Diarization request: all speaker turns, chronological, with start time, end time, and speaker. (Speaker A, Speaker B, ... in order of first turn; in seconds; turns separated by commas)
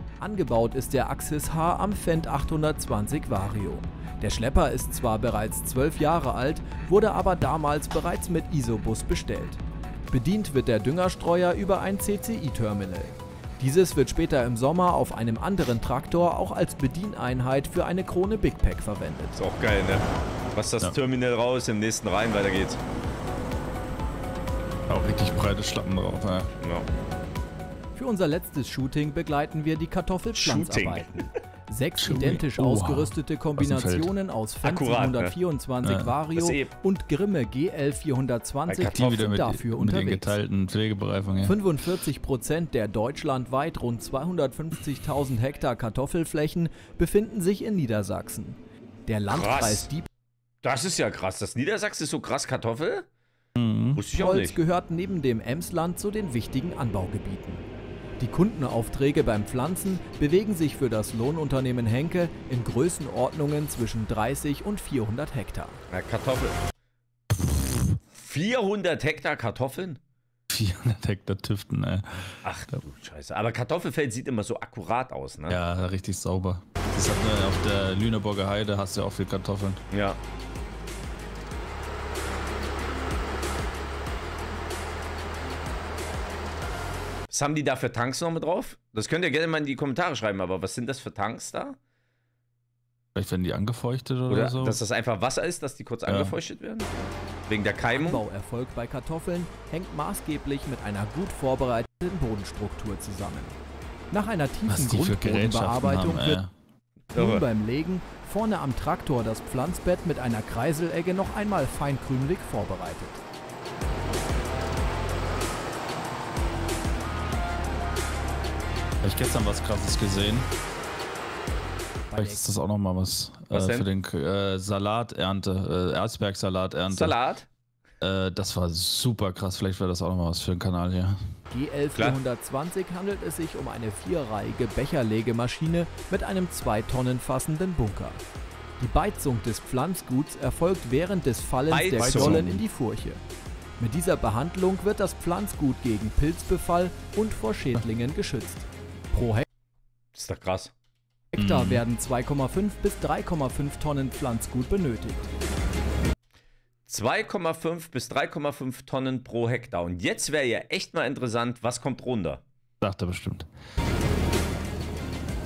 Speaker A: 0.2-19.4, Speaker B: 19.4-22.8, Speaker C: 24.9-26.5, Speaker B: 26.6-26.9, Speaker A: 27.9-40.4, Speaker B: 30.3-31.3, Speaker C: 32.0-34.1, Speaker B: 34.6-35.4, Speaker C: 35.8-36.2, Speaker B: 36.4-36.7, Speaker B: 38.7-39.3, Speaker C: 38.9-41.6, Speaker A: 41.4-50.1, Speaker B: 49.3-49.9, Speaker B: 50.6-53.1, Speaker C: 53.6-54.0, Speaker B: 54.0-54.6, Speaker A: 54.1-57.6, Speaker A: 58.2-65.8, Speaker B: 65.9-66.6, Speaker B: 68.1-70.0, Speaker C: 70.5-72.4, Speaker B: 72.4-75.6, Speaker C: 75.5-79.8, Speaker B: 79.9-80.2, Speaker B: 87.3-91.8, Speaker C: 93.2-94.8, Speaker B: 94.3-96.9, Speaker C: 96.1-96.4, Speaker B: 97.5-98.2, Speaker A: 97.9-103.6, Speaker A: 104.1-106.4, Speaker C: 104.7-106.5, Speaker B: 107.1-107.5, Speaker A: 107.1-113.2, Speaker C: 119.0-120.5, Speaker A: 122.1-122.6, Speaker C: 122.2-127.2, Speaker B: 123.5-123.9, Speaker B: 126.9-127.5, Speaker C: 128.0-131.2, Speaker A: 131.5-138.2, Speaker A: 138.8-143.2, Speaker B: 141.7-142.5, Speaker C: 142.0-142.6, Speaker A: 143.8-149.4, Speaker B: 150.2-150.7, Speaker A: 151.3-155.3, Speaker C: 151.4-151.8, Speaker B: 156.9-162.4, Speaker C: 162.8-163.5